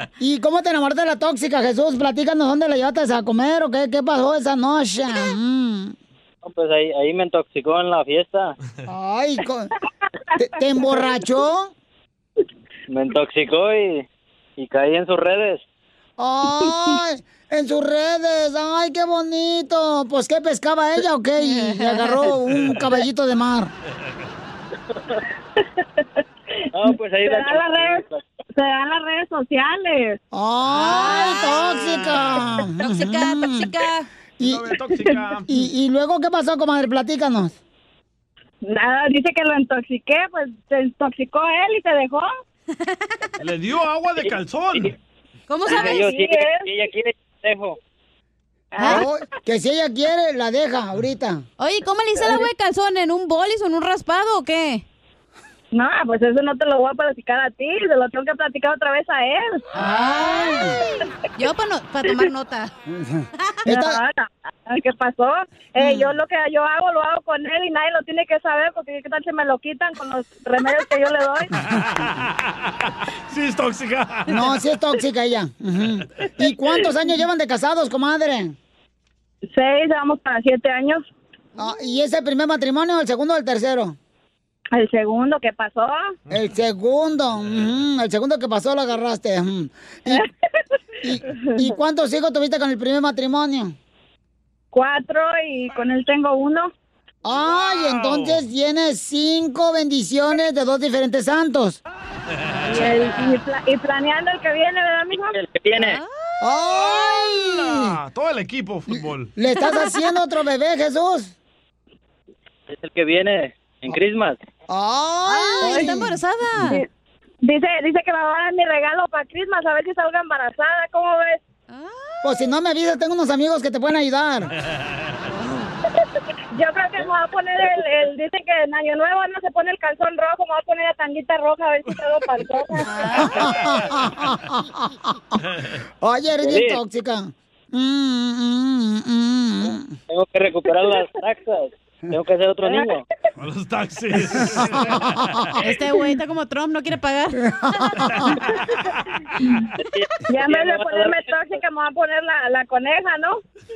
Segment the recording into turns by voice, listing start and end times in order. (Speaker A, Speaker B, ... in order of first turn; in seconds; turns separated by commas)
Speaker A: 0.2-5.9, Speaker B: 6.4-8.5, Speaker A: 8.8-9.7, Speaker A: 10.4-11.7, Speaker B: 12.9-14.0, Speaker B: 14.6-15.6, Speaker A: 16.2-23.7, Speaker C: 21.4-22.3, Speaker D: 25.8-26.0, Speaker B: 26.7-28.2, Speaker D: 27.2-30.2, Speaker A: 30.3-33.7, Speaker C: 30.7-31.9, Speaker C: 32.8-34.1, Speaker E: 34.4-35.5, Speaker A: 35.5-37.6, Speaker D: 38.6-42.3, Speaker E: 43.4-44.9, Speaker C: 45.5-46.0, Speaker D: 45.7-46.6, Speaker B: 45.7-47.8, Speaker D: 48.7-49.1, Speaker C: 48.8-49.0, Speaker A: 48.8-51.4, Speaker C: 51.6-54.8, Speaker D: 55.7-59.6, Speaker C: 59.8-62.7, Speaker A: 59.8-60.8, Speaker A: 62.9-64.0, Speaker D: 63.6-71.5, Speaker A: 65.8-66.1, Speaker E: 71.6-72.7, Speaker E: 73.3-74.5, Speaker A: 74.3-78.5, Speaker D: 79.5-81.0, Speaker A: 81.6-84.0, Speaker D: 84.7-86.1, Speaker A: 86.3-90.2, Speaker A: 91.0-93.7, Speaker D: 91.3-91.7, Speaker D: 94.7-96.7, Speaker A: 97.2-101.8, Speaker E: 97.5-98.4, Speaker D: 102.7-105.3, Speaker C: 102.7-103.0, Speaker B: 105.3-106.0, Speaker C: 105.8-106.3, Speaker A: 106.4-108.0, Speaker E: 106.7-109.3, Speaker A: 109.3-111.3, Speaker B: 112.7-114.4, Speaker A: 114.7-116.2, Speaker C: 115.2-116.8, Speaker D: 117.4-121.4, Speaker C: 121.7-122.3, Speaker A: 122.2-124.5, Speaker C: 125.3-125.7, Speaker D: 126.5-133.2, Speaker C: 132.8-133.4, Speaker A: 133.2-135.4, Speaker A: 136.0-139.9, Speaker B: 136.4-136.8, Speaker B: 140.1-143.0, Speaker E: 143.4-145.5, Speaker A: 144.4-145.5, Speaker C: 145.6-148.0, Speaker A: 147.5-148.3, Speaker B: 149.8-151.3, Speaker D: 150.3-153.4